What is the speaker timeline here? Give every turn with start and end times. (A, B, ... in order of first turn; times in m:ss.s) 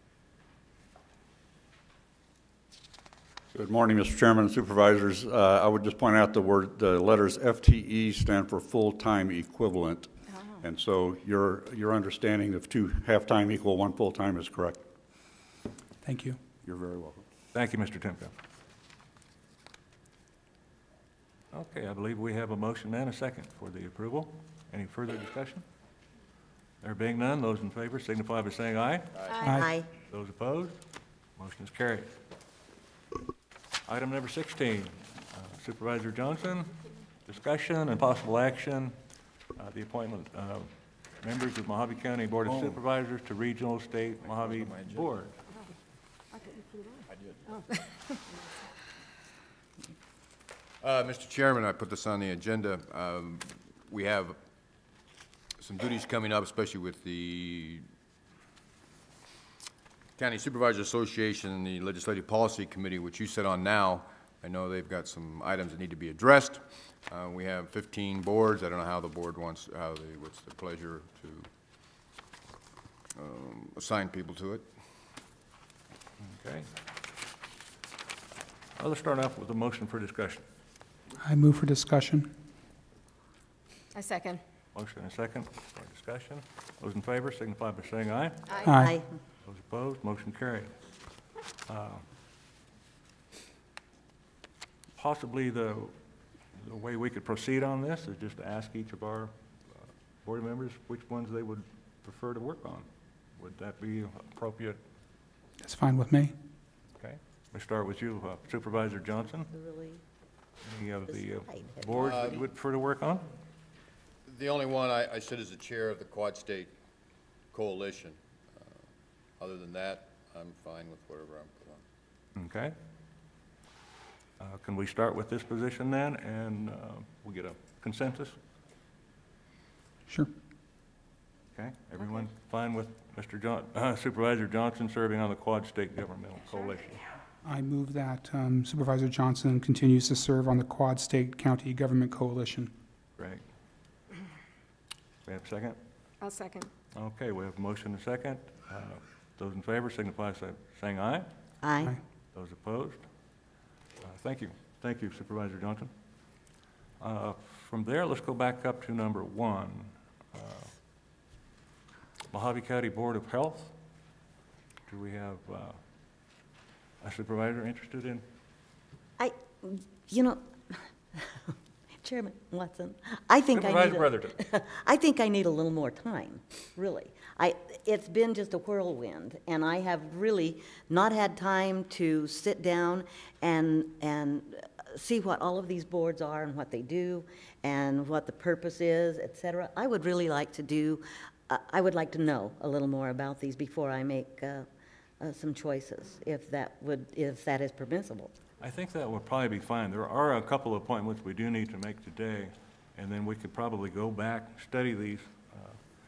0:03.5-0:14.8 A
0:16.0-0:16.4 B
0:16.6-0:17.2 A
0:17.5-0:18.3 C
0:21.5-0:25.6 C
0:26.8-0:29.2 C
0:29.2-0:29.5 D
0:29.3-0:29.6 E
0:29.4-0:29.9 F
0:30.1-0:30.8 C
0:31.4-0:32.1 C
0:33.9-0:39.0 C
0:39.6-0:40.7 C
0:41.2-0:45.4 C
0:47.5-0:48.1 E
0:50.8-0:54.4 D
0:55.6-0:57.8 D
1:00.2-1:11.5 D
1:13.2-1:14.7 D
1:16.2-1:16.7 C
1:18.8-1:20.4 C
1:21.2-1:22.4 B
1:23.9-1:24.4 E
1:24.7-1:28.7 C
1:28.6-1:29.0 B
1:28.6-1:29.1 F
1:29.4-1:30.7 C
1:31.7-1:32.0 C
1:35.0-1:35.9 C
1:36.6-1:39.3 C
1:40.2-1:44.8 C
1:45.6-1:46.4 B
1:47.0-1:49.5 C
1:49.2-1:50.0 F
1:50.6-1:53.3 C
1:51.1-1:52.1 F
1:51.9-1:52.4 D
1:54.3-1:56.7 D
1:57.5-1:58.8 D
1:59.4-2:01.8 D
2:02.4-2:02.7 C
2:04.4-2:08.4 C
2:10.1-2:10.3 B
2:11.6-2:17.0 C
2:17.4-2:22.7 B
2:23.2-2:23.4 C
2:25.3-2:25.8 C
2:26.2-2:26.7 E
2:26.9-2:31.3 C
2:31.6-2:31.9 F
2:32.3-2:33.0 C
2:34.0-2:35.9 C
2:37.0-2:40.7 C
2:42.3-2:43.7 C
2:44.9-2:45.8 C
2:47.0-2:48.2 C
2:49.2-3:14.7 F
2:53.5-2:54.4 C
3:15.2-3:18.3 F
3:18.6-3:25.8 C